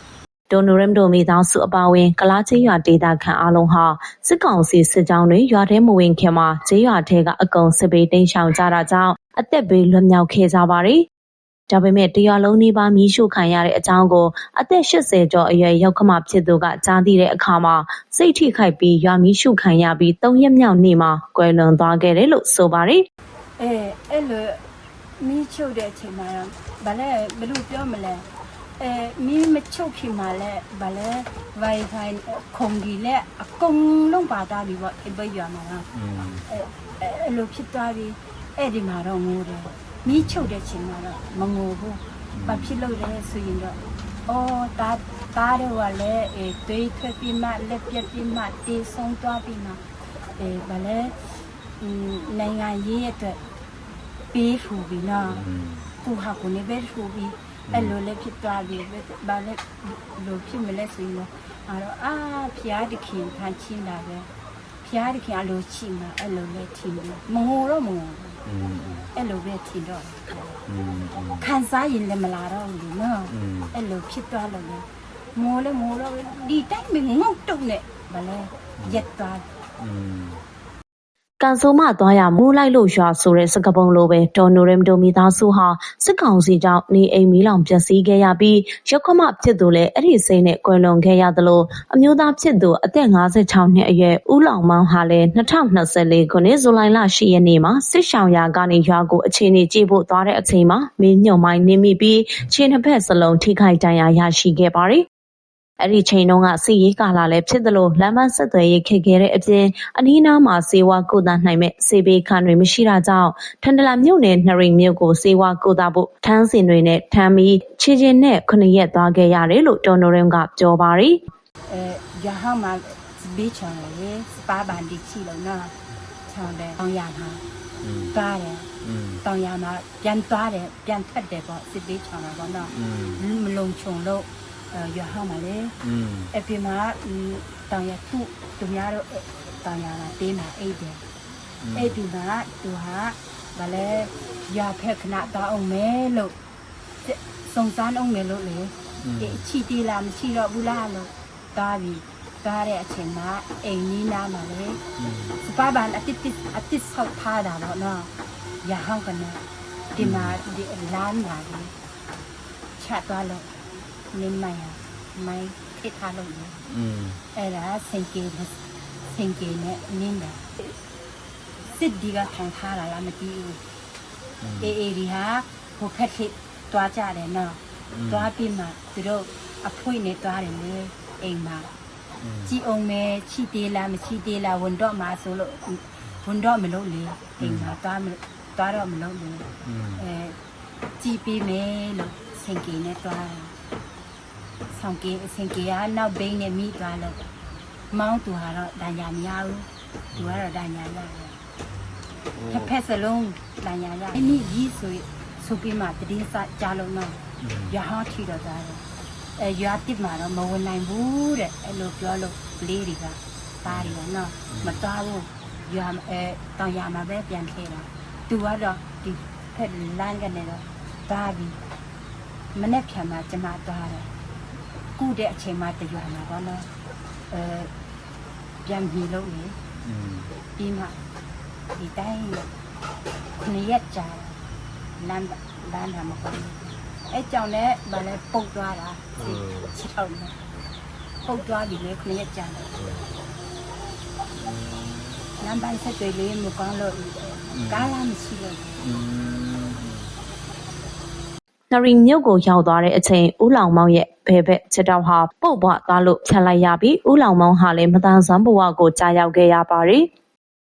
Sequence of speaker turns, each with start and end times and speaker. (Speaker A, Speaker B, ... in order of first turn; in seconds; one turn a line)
Speaker A: 0.5-11.1
Speaker A: 11.7-23.1
Speaker B: 23.6-24.6
Speaker B: 25.2-28.3
Speaker B: 28.8-35.9
Speaker C: 36.0-36.4
Speaker B: 36.5-49.8
Speaker C: 42.4-42.6
Speaker B: 50.4-53.4
Speaker B: 54.3-55.5
Speaker C: 55.5-55.8
Speaker B: 56.0-64.3
Speaker B: 64.8-68.4
Speaker C: 68.5-69.1
Speaker B: 69.1-70.6
Speaker C: 70.7-71.4
Speaker B: 71.3-79.5
Speaker C: 73.4-73.7
Speaker C: 79.8-80.4
Speaker A: 81.4-105.0
Speaker A: 105.8-121.2
Speaker B: 121.7-125.7
Speaker B: 126.3-127.4
Speaker B: 128.1-128.7
Speaker C: 128.8-129.2
Speaker B: 129.2-135.8
Speaker C: 132.8-133.2
Speaker C: 135.8-136.3
Speaker B: 136.3-141.0
Speaker C: 141.6-141.9
Speaker B: 141.7-146.3
Speaker B: 147.1-154.8
Speaker C: 149.1-149.3
Speaker C: 155.0-155.3
Speaker B: 155.4-158.1
Speaker B: 158.6-159.4
Speaker B: 159.9-161.7
Speaker C: 160.0-160.3
Speaker B: 162.8-163.5
Speaker B: 164.1-166.6
Speaker C: 166.7-167.2
Speaker B: 167.3-168.6
Speaker B: 169.1-170.7
Speaker B: 171.6-173.6
Speaker B: 174.6-181.7
Speaker C: 182.2-182.5
Speaker B: 182.5-190.4
Speaker C: 189.7-190.0
Speaker B: 191.0-193.6
Speaker B: 194.7-197.2
Speaker B: 197.9-201.4
Speaker B: 202.5-208.8
Speaker C: 207.5-207.7
Speaker B: 209.4-221.6
Speaker B: 222.5-224.1
Speaker B: 225.0-226.7
Speaker B: 227.3-227.7
Speaker B: 228.6-229.6
Speaker C: 229.9-230.3
Speaker B: 230.6-231.0
Speaker B: 231.7-232.5
Speaker B: 233.3-234.4
Speaker B: 235.0-240.4
Speaker C: 239.3-239.7
Speaker B: 241.2-242.7
Speaker B: 245.4-248.8
Speaker C: 248.8-250.0
Speaker A: 251.7-260.1